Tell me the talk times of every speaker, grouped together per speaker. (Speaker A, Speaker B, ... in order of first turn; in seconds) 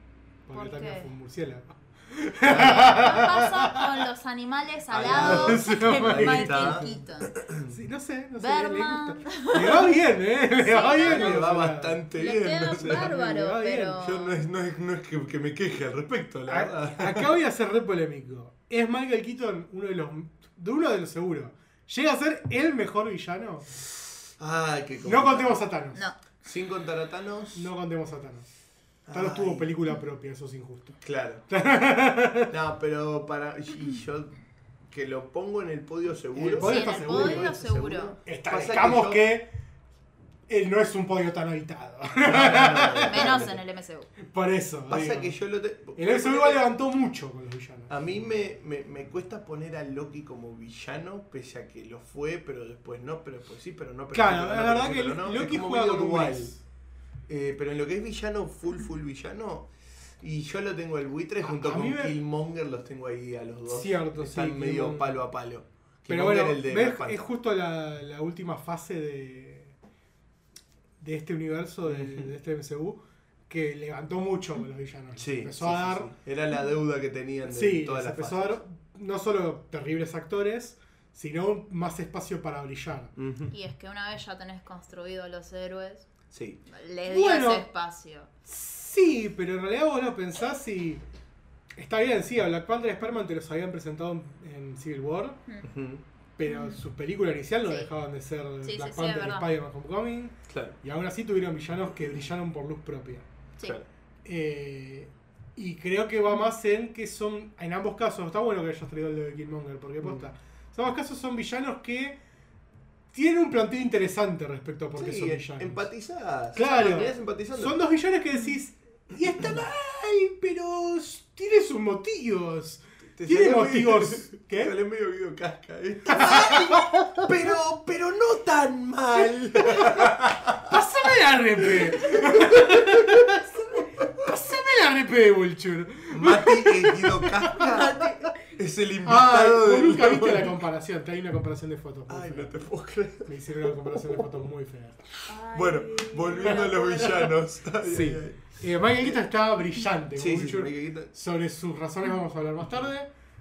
Speaker A: 0.5-3.9, 5.1-7.0, 7.6-12.0, 12.7-14.0, 16.5-23.7, 25.0-26.0, 27.5-28.4, 29.1-32.5, 36.4-37.5, 38.2-39.5, 40.5-43.5, 44.2-45.4, 45.9-47.9, 54.1-56.6, 61.4-62.1, 63.7-65.2, 66.1-69.8, 71.0-76.1, 77.5-83.1, 87.0-87.7, 88.5-91.0, 91.8-95.4, 96.4-103.2, 104.2-112.2, 113.1-115.9, 116.5-124.7, 126.1-127.3, 129.5-137.9, 139.0-142.5, 143.2-145.2, 147.8-153.1
Speaker B: 0.5-1.1, 2.5-7.3, 8.4-9.9, 10.6-11.4, 12.1-14.4, 25.9-26.2, 36.6-38.1, 43.0-44.1, 83.5-86.1, 86.7-88.3, 96.5-96.8, 98.6-99.5, 116.7-117.1, 137.7-138.4, 145.3-147.3
Speaker C: 2.4-3.2, 4.9-7.7, 11.0-13.1, 14.0-17.3, 24.4-25.6, 26.4-27.7, 29.1-29.7, 31.0-31.4, 32.5-34.4, 34.9-39.2, 42.2-43.6, 44.9-46.6, 47.9-56.5, 57.3-67.2, 71.9-72.3, 75.2-78.6, 83.2-83.5, 86.3-86.6, 95.6-96.0, 100.5-100.8, 110.0-110.3, 114.9-117.8, 123.2-130.8, 131.6-134.3, 136.1-140.6, 142.1-144.4, 145.5-149.2, 150.1-151.1